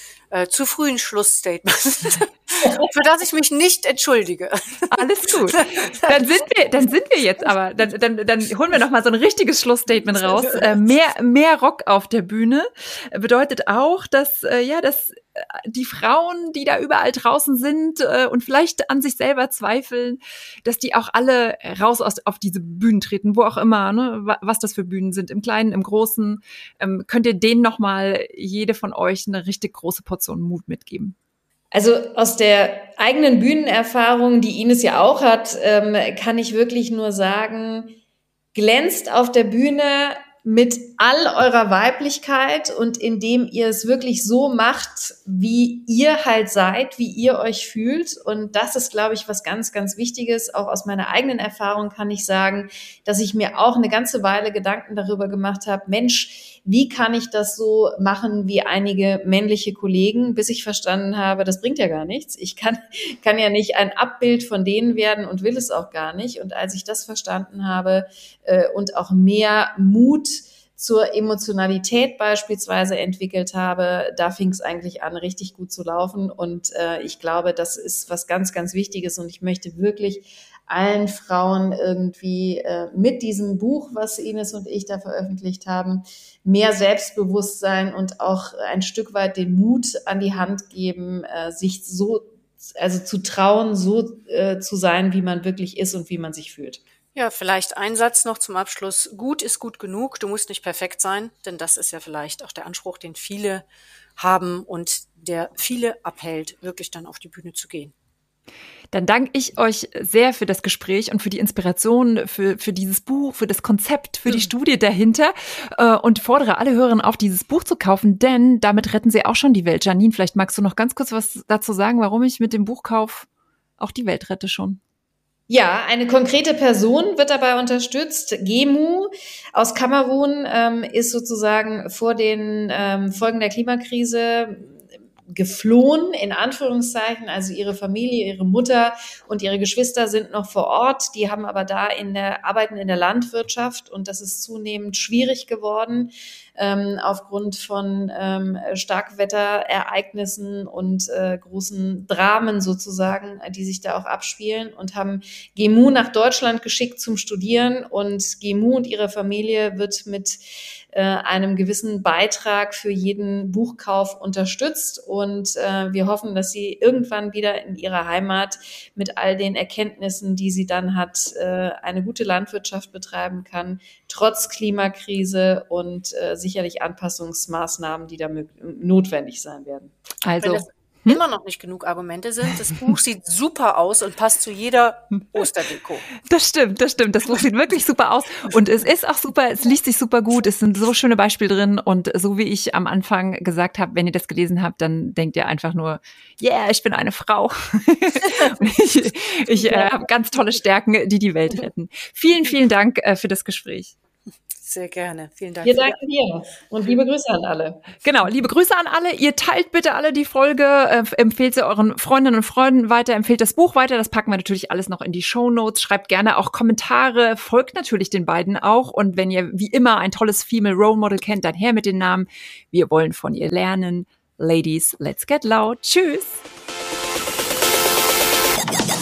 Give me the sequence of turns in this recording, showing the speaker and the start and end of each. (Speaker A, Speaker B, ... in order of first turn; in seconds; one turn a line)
Speaker A: 0.3-6.2
Speaker B: 4.9-31.1
Speaker A: 10.1-10.7
Speaker C: 31.7-38.0
Speaker C: 38.5-96.8
Speaker A: 97.1-103.6
Speaker A: 104.2-107.9
Speaker B: 108.9-123.3
Speaker B: 123.8-124.8
Speaker C: 125.5-160.4
Speaker C: 160.9-179.9
Speaker B: 180.2-181.2
Speaker A: 180.4-186.1
Speaker B: 186.2-203.9
Speaker A: 199.6-199.9
Speaker A: 204.6-205.9
Speaker C: 205.6-207.8
Speaker B: 208.0-226.4